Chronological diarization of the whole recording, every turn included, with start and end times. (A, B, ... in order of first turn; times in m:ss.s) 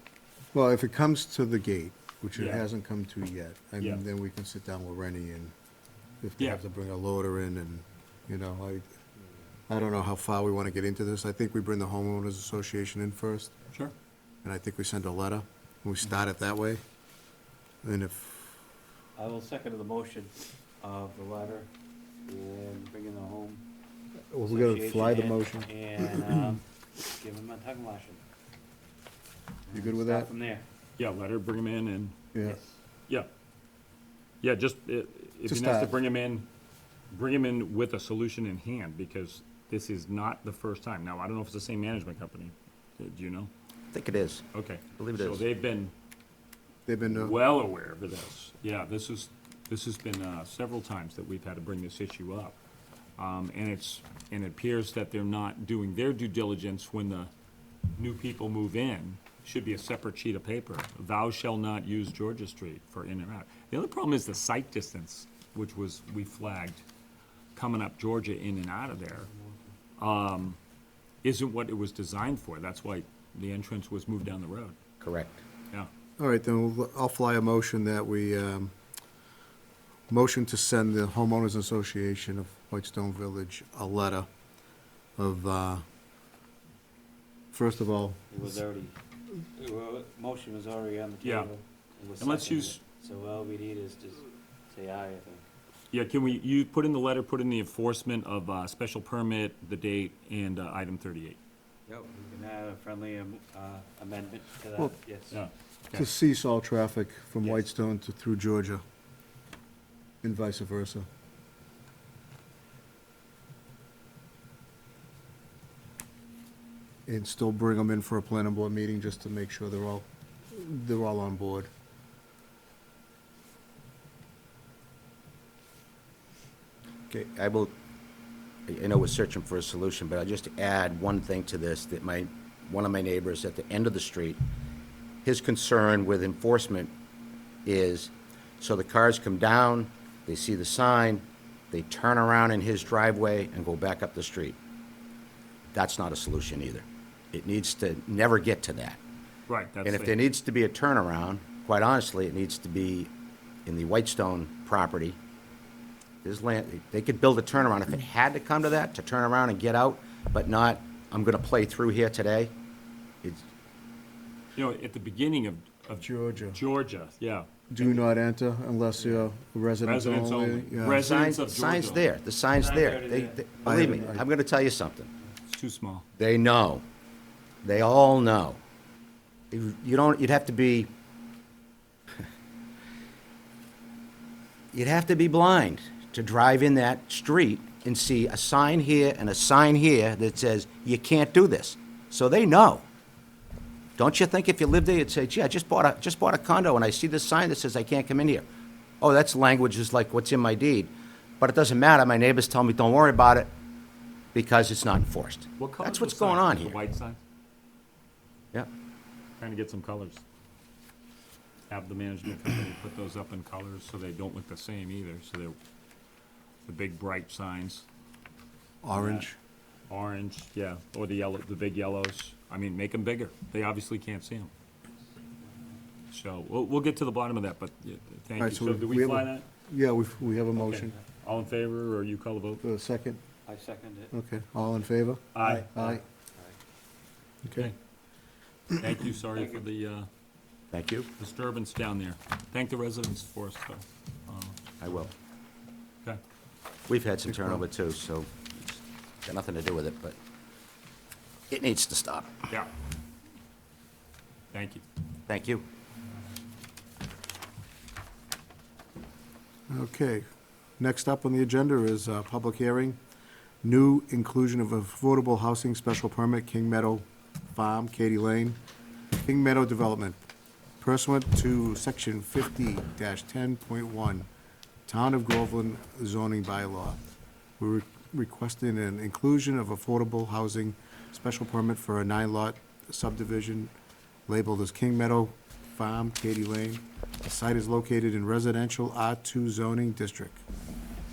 0:00.5-0:05.5 A
0:02.3-0:02.6 B
0:06.2-0:08.9 A
0:09.7-0:13.6 A
0:14.4-0:16.8 A
0:17.8-0:18.6 A
0:19.2-0:21.7 C
0:22.2-0:23.6 C
0:24.3-0:26.6 A
0:24.4-0:28.2 C
0:29.7-0:30.6 C
0:29.7-0:30.3 A
0:31.0-0:32.2 B
0:32.4-0:32.8 C
0:34.4-0:36.5 B
0:35.5-0:36.0 A
0:37.1-0:43.5 B
0:43.9-0:44.4 D
0:44.5-0:45.9 B
0:45.0-0:45.4 D
0:46.9-0:47.4 A
0:47.1-0:52.6 B
0:53.2-0:57.3 B
0:58.0-1:06.8 B
1:07.6-1:09.3 B
1:09.3-1:09.6 C
1:10.0-1:10.6 B
1:11.2-1:14.8 B
1:15.0-1:15.4 D
1:16.2-1:18.7 A
1:20.1-1:24.3 A
1:25.2-1:25.8 A
1:27.5-1:28.4 A
1:28.3-1:29.0 C
1:29.6-1:35.5 C
1:31.2-1:31.5 B
1:32.2-1:32.8 B
1:35.9-1:41.4 B
1:41.9-1:45.4 C
1:45.3-1:46.1 B
1:45.9-1:48.8 A
1:50.2-1:51.1 A
1:57.1-2:01.7 A
2:07.2-2:07.7 D
2:08.7-2:14.4 D
2:15.2-2:16.9 D
2:17.6-2:24.6 D
2:25.7-2:29.0 D
2:29.5-2:30.1 B
2:29.8-2:33.1 D
2:33.6-2:35.2 D
2:36.2-2:42.5 D
2:44.5-2:47.5 B
2:45.9-2:46.6 A
2:47.7-2:51.0 A
2:49.0-2:49.3 C
2:49.8-2:52.0 B
2:50.9-2:55.1 D
2:52.5-2:54.1 C
2:53.6-2:54.2 A
2:55.5-2:56.0 B
2:56.2-2:56.8 D
2:57.6-2:58.6 D
2:59.5-3:00.9 D
3:04.7-3:12.8 D
3:14.0-3:18.4 D
3:19.0-3:23.5 D
3:24.3-3:26.8 D
3:25.6-3:27.2 B
3:29.4-3:30.2 B
3:31.7-3:35.6 B
3:36.6-3:37.8 B
3:38.8-3:39.4 A
3:38.9-3:39.3 B
3:39.9-3:44.5 B
3:46.1-3:49.4 B
3:48.4-3:50.9 A
3:50.6-3:52.6 B
3:52.6-3:53.2 A
3:53.5-3:54.1 C
3:54.1-3:56.0 A
3:55.3-3:55.7 B
3:55.8-3:56.6 C
3:57.4-3:57.7 A
3:58.8-4:00.1 B
3:59.3-3:59.6 C
4:00.7-4:01.1 D
4:01.2-4:04.6 B
4:04.8-4:05.1 D
4:06.9-4:10.2 D
4:07.3-4:07.6 A
4:11.5-4:12.4 D
4:14.5-4:14.8 B
4:15.3-4:15.6 D
4:19.7-4:20.2 A
4:20.8-4:23.0 A
4:23.6-4:28.6 A
4:29.2-4:30.2 A
4:30.8-4:34.3 A
4:34.9-4:37.0 A
4:37.6-4:43.7 A
4:44.3-4:50.4 A